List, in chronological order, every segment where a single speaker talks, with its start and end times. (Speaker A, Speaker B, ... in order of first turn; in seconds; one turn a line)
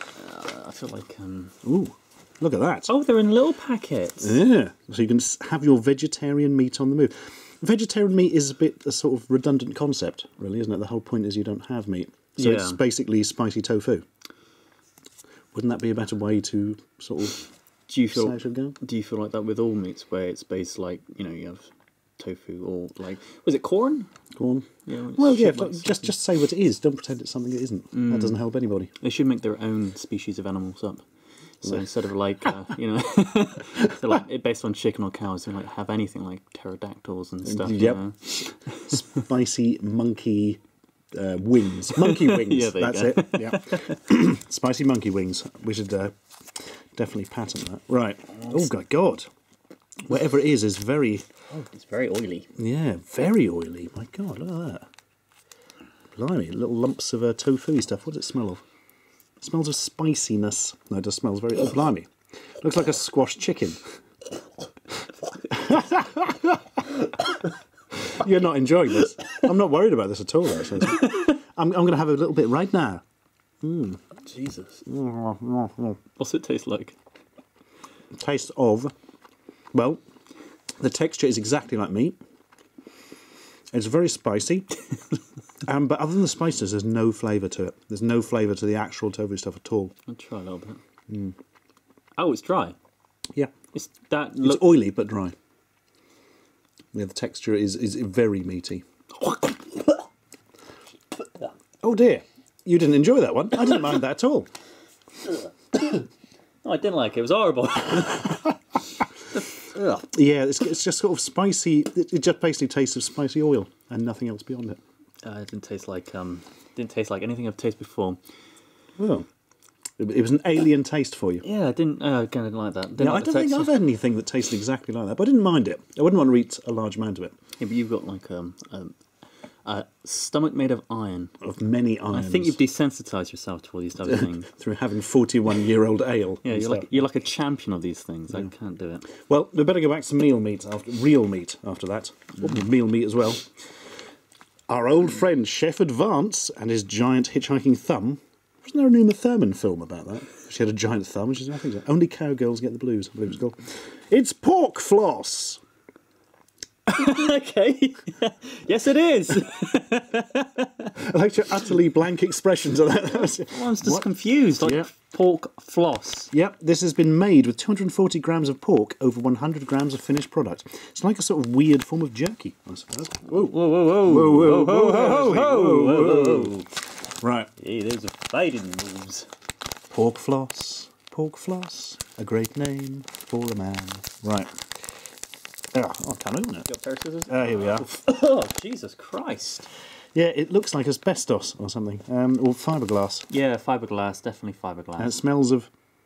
Speaker A: 0.1-1.6
Speaker B: 1.6-2.9
Speaker A: 2.9-4.4
Speaker B: 4.2-14.0
Speaker A: 12.4-12.8
Speaker B: 15.5-17.4
Speaker A: 17.9-24.1
Speaker B: 18.1-18.8
Speaker B: 24.4-28.9
Speaker A: 24.9-26.1
Speaker A: 27.9-28.4
Speaker A: 29.0-31.0
Speaker A: 31.6-39.0
Speaker B: 37.4-40.6
Speaker B: 41.1-49.3
Speaker A: 41.9-44.0
Speaker A: 48.3-48.7
Speaker B: 50.0-51.2
Speaker A: 51.5-52.5
Speaker B: 52.6-54.9
Speaker B: 56.1-58.6
Speaker B: 59.4-62.1
Speaker B: 62.6-63.8
Speaker B: 65.5-66.6
Speaker B: 68.1-73.0
Speaker B: 73.6-74.0
Speaker A: 74.2-74.8
Speaker B: 74.8-76.0
Speaker A: 76.2-77.0
Speaker B: 78.2-78.9
Speaker B: 79.7-80.0
Speaker B: 80.8-82.2
Speaker B: 83.7-84.7
Speaker B: 85.6-89.9
Speaker A: 90.1-90.8
Speaker B: 91.1-91.3
Speaker A: 92.2-92.8
Speaker A: 93.7-94.8
Speaker B: 94.4-95.3
Speaker B: 96.9-98.8
Speaker B: 101.8-104.5
Speaker A: 105.7-106.0
Speaker A: 106.6-108.6
Speaker A: 109.3-110.0
Speaker B: 109.9-114.8
Speaker A: 115.2-118.2
Speaker B: 119.0-119.2
Speaker B: 120.0-121.4
Speaker A: 121.4-123.7
Speaker B: 123.0-127.3
Speaker A: 127.6-129.0
Speaker A: 129.6-131.3
Speaker B: 131.4-132.6
Speaker A: 132.1-134.5
Speaker B: 134.0-137.1
Speaker A: 136.4-139.1
Speaker B: 139.1-143.5
Speaker B: 144.7-155.6
Speaker A: 156.9-160.9
Speaker B: 160.9-164.1
Speaker A: 163.5-166.3
Speaker B: 164.6-164.9
Speaker B: 166.3-176.6
Speaker A: 173.3-176.7
Speaker B: 177.2-177.5
Speaker A: 177.6-179.3
Speaker B: 179.9-184.5
Speaker B: 185.7-186.7
Speaker A: 186.6-189.7
Speaker B: 187.3-187.9
Speaker B: 190.1-193.3
Speaker A: 193.3-195.2
Speaker B: 195.0-195.7